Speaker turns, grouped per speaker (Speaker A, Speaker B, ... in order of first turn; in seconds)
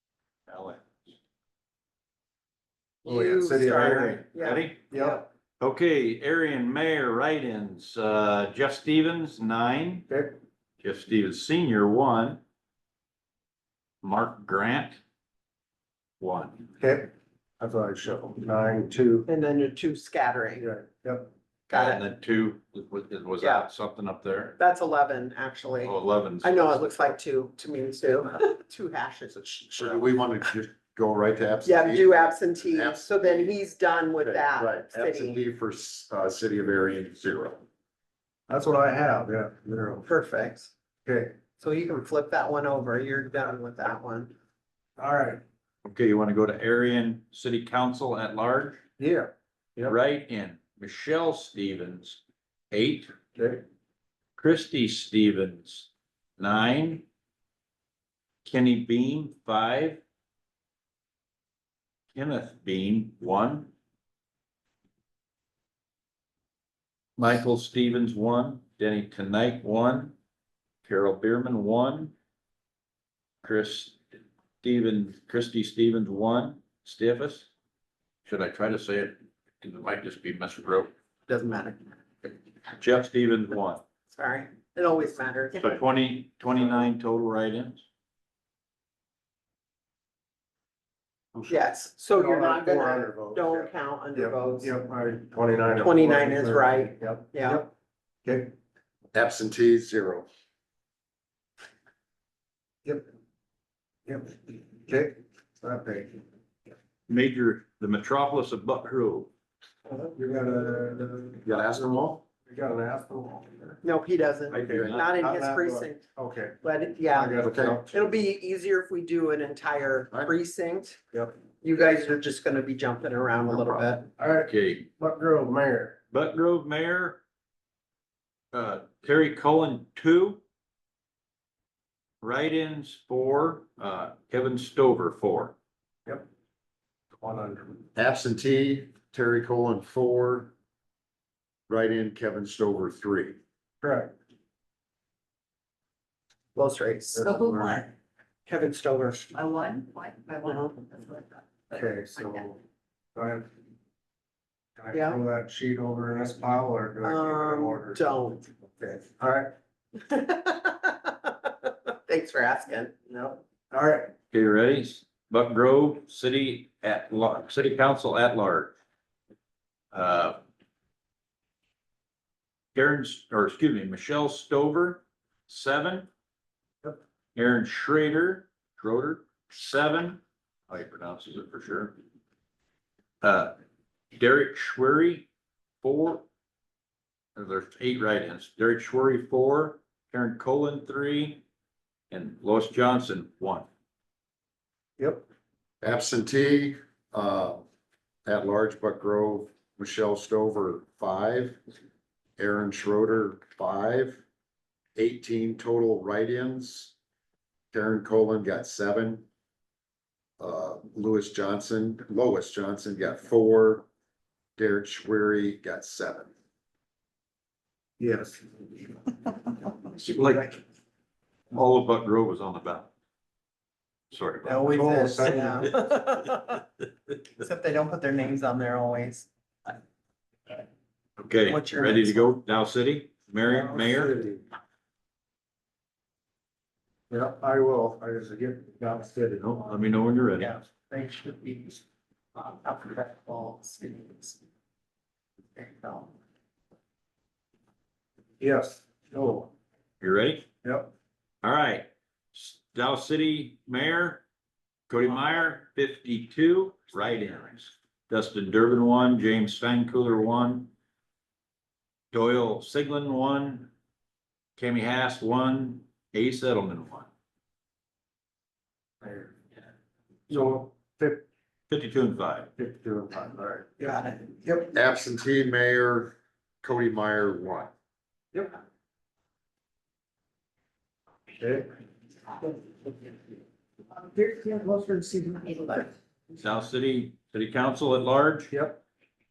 Speaker A: 0.5-1.1, 3.7-4.9, 5.6-10.1, 10.8-12.4, 14.0-15.0, 16.2-16.6, 21.7-24.6, 25.8-27.1, 45.8-48.8, 49.9-53.1, 54.4-57.0, 58.4-60.0, 62.1-63.7, 67.2-70.1, 70.8-72.1, 73.4-74.0, 74.6-77.5, 78.2-80.9, 82.8-83.8, 85.6-87.8, 107.1-109.3, 114.5-115.0, 124.4-124.9, 126.1-127.2, 128.5-130.4, 132.2-135.5, 164.3-168.7, 169.9-170.4, 172.7-176.1, 177.3-181.9, 183.2-183.5, 184.1-185.3, 185.8-186.2, 187.3-191.4, 192.1-193.7, 219.8-220.6, 221.5-222.9, 224.1-224.8, 231.2-234.2, 239.4-240.6, 250.0-250.4, 251.4-254.2, 254.9-260.7, 262.1-263.7, 264.6-267.1, 271.7-272.5, 286.4-288.5
Speaker B: 3.0-4.0, 4.9-5.2, 10.1-10.3, 16.8-19.3, 20.6-21.3, 38.5-40.0, 41.0-41.4, 45.0-45.4, 49.0-50.0, 53.4-53.6, 92.1-97.7, 98.2-98.5, 102.8-103.1, 104.0-106.2, 109.9-111.4, 112.5-113.8, 114.5-117.9, 124.2-126.0, 137.2-137.8, 143.8-144.1, 147.1-147.9, 151.7-152.6, 153.1-153.4, 154.8-158.0, 158.8-159.5, 163.7-164.1, 195.0-195.2, 218.0-218.4, 224.7-225.7, 233.5-234.4, 237.1-239.8, 248.4-249.5, 250.6-250.9, 269.0-269.3, 270.3-271.2, 272.6-273.8, 281.4-281.7, 288.5-288.8
Speaker C: 3.0-5.2, 19.3-20.7, 21.7-22.0, 23.4-23.7, 24.6-30.1, 31.6-35.4, 40.0-40.7, 41.6-44.3, 81.3-81.8, 84.1-85.8, 91.5-94.7, 95.8-97.6, 113.8-116.0, 116.6-121.0, 121.6-124.1, 146.5-147.3, 148.5-149.3, 150.4-150.8, 154.9-155.2, 157.0-158.5, 160.0-163.4, 224.4-226.6, 227.4-229.3, 231.4-232.3, 240.4-241.8, 242.3-244.4, 245.5-246.1, 273.8-274.4, 283.9-285.9
Speaker D: 29.7-33.5, 34.2-37.6, 99.1-100.3, 111.4-112.2, 117.4-117.8, 137.9-140.5, 141.7-143.4, 195.8-197.6, 198.2-201.6, 202.4-204.2, 204.9-206.9, 207.7-209.2, 210.4-213.8, 214.6-216.3, 274.7-277.7
Speaker E: 147.2-147.9, 149.3-151.4